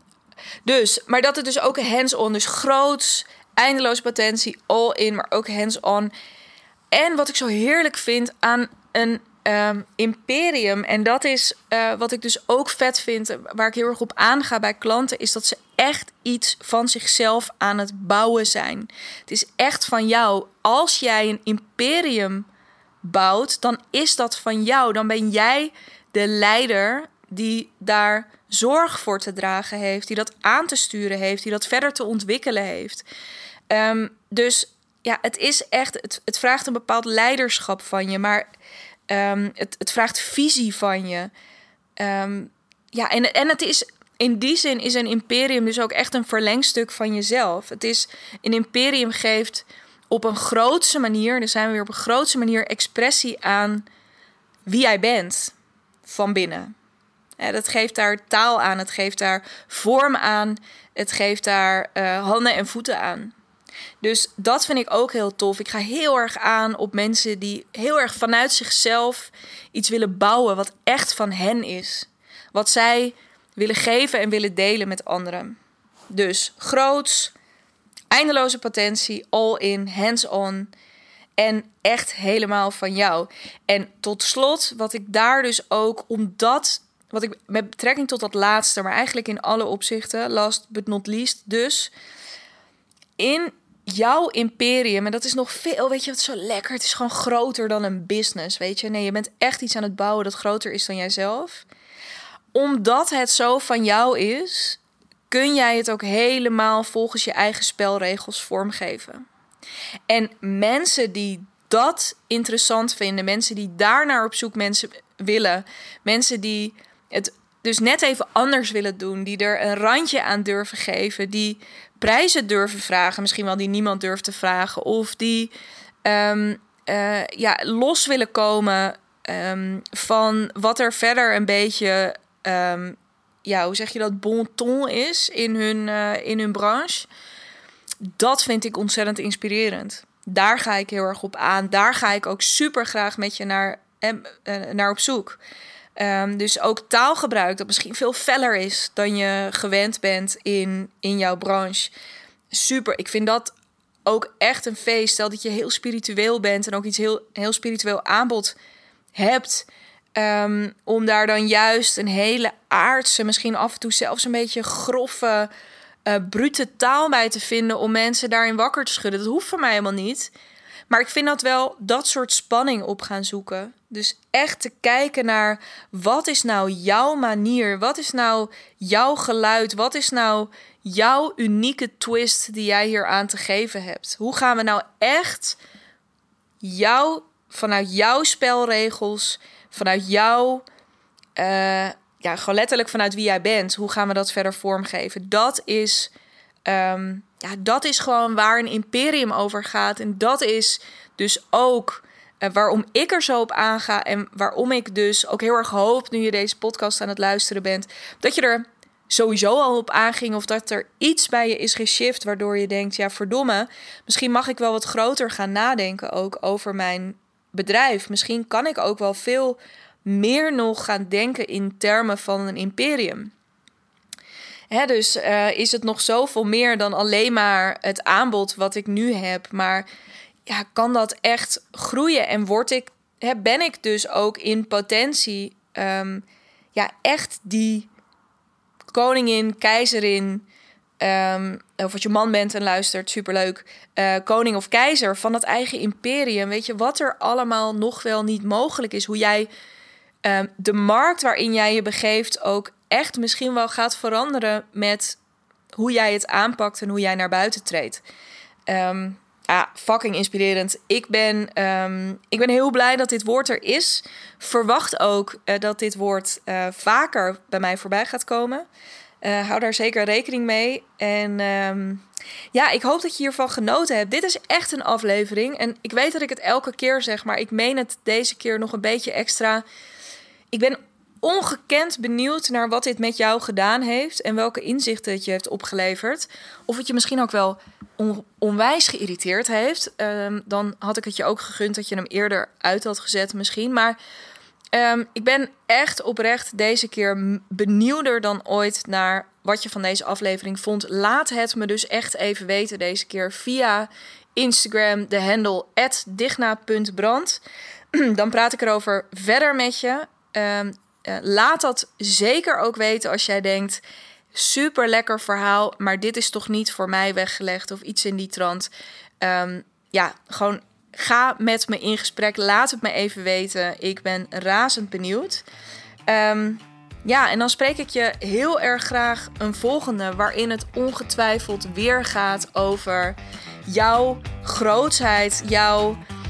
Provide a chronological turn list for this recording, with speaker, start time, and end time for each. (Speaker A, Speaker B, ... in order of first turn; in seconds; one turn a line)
Speaker A: 0.6-6.1
Speaker A: 6.9-22.5
Speaker A: 23.0-33.0
Speaker A: 33.7-38.5
Speaker A: 39.1-41.3
Speaker A: 42.0-53.9
Speaker A: 54.6-55.5
Speaker A: 56.0-56.7
Speaker A: 57.4-63.3
Speaker A: 64.0-75.6
Speaker A: 76.1-77.3
Speaker A: 78.1-80.7
Speaker A: 81.4-91.9
Speaker A: 93.2-101.6
Speaker A: 102.5-109.2
Speaker A: 110.1-125.5
Speaker A: 126.0-137.1
Speaker A: 138.0-145.4
Speaker A: 146.0-151.9
Speaker A: 152.5-153.5
Speaker A: 154.0-158.5
Speaker A: 159.1-165.5
Speaker A: 166.1-170.3
Speaker A: 170.9-185.6
Speaker A: 186.6-190.6
Speaker A: 191.3-196.1
Speaker A: 196.7-223.3
Speaker A: 224.7-229.9
Speaker A: 230.4-237.9
Speaker A: 238.9-240.5
Speaker A: 241.0-249.5
Speaker A: 250.2-255.2
Speaker A: 255.7-258.0
Speaker A: 258.7-268.6
Speaker A: 269.2-279.6
Speaker A: 280.5-294.0
Speaker A: 294.7-307.4
Speaker A: 307.9-313.8
Speaker A: 314.3-325.4
Speaker A: 326.1-336.0